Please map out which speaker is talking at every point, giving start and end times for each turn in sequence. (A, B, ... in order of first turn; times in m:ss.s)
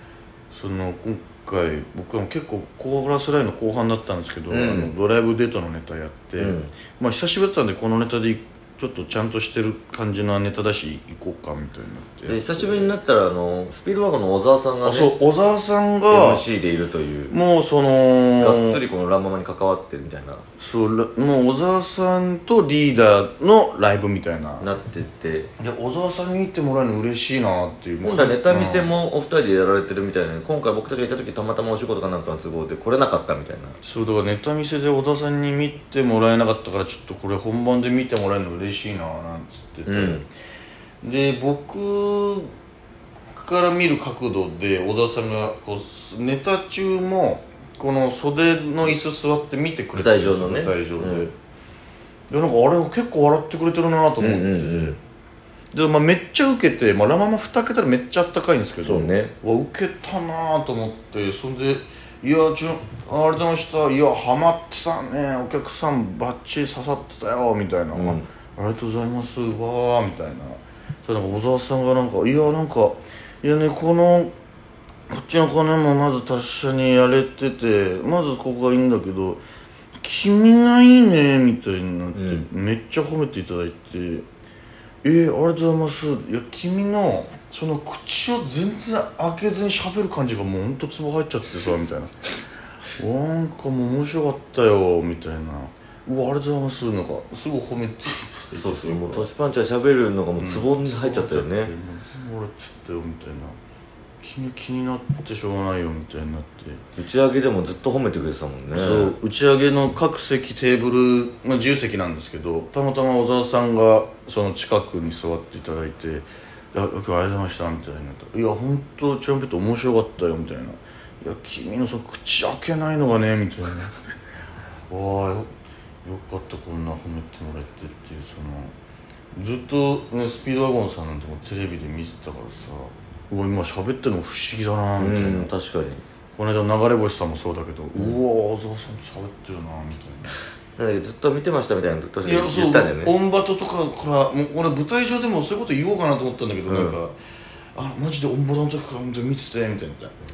0:00.5-0:13.0 A
0:04.5-0:04.9 B
0:06.4-0:06.7 B
0:12.3-0:15.1 B
0:14.8-0:16.4 A
0:16.1-0:17.4 B
0:17.3-0:18.8 A
0:18.4-0:20.5 B
0:20.6-0:24.7 A
0:24.6-0:25.5 B
0:25.6-0:28.9 A
0:28.0-0:33.8 B
0:33.8-0:40.2 A
0:39.8-0:40.2 B
0:41.0-0:42.5 A
0:43.3-0:51.3 A
0:49.9-0:51.3 B
0:52.3-0:55.0 A
0:54.2-0:55.0 B
0:55.7-1:14.3 A
0:58.8-0:59.3 B
1:07.9-1:08.2 B
1:15.1-1:19.4 A
1:20.0-1:24.2 A
1:22.1-1:22.5 B
1:25.0-1:32.2 A
1:32.9-1:39.3 A
1:38.5-1:41.7 B
1:40.4-1:43.6 A
1:44.2-1:46.8 A
1:46.9-1:49.1 B
1:48.7-2:04.0 A
2:04.9-2:05.5 A
2:06.0-2:08.7 A
2:09.3-2:15.5 A
2:15.0-2:16.0 B
2:16.4-2:20.4 A
2:20.8-2:23.2 B
2:22.2-2:27.2 A
2:26.7-2:27.0 B
2:27.7-2:30.2 A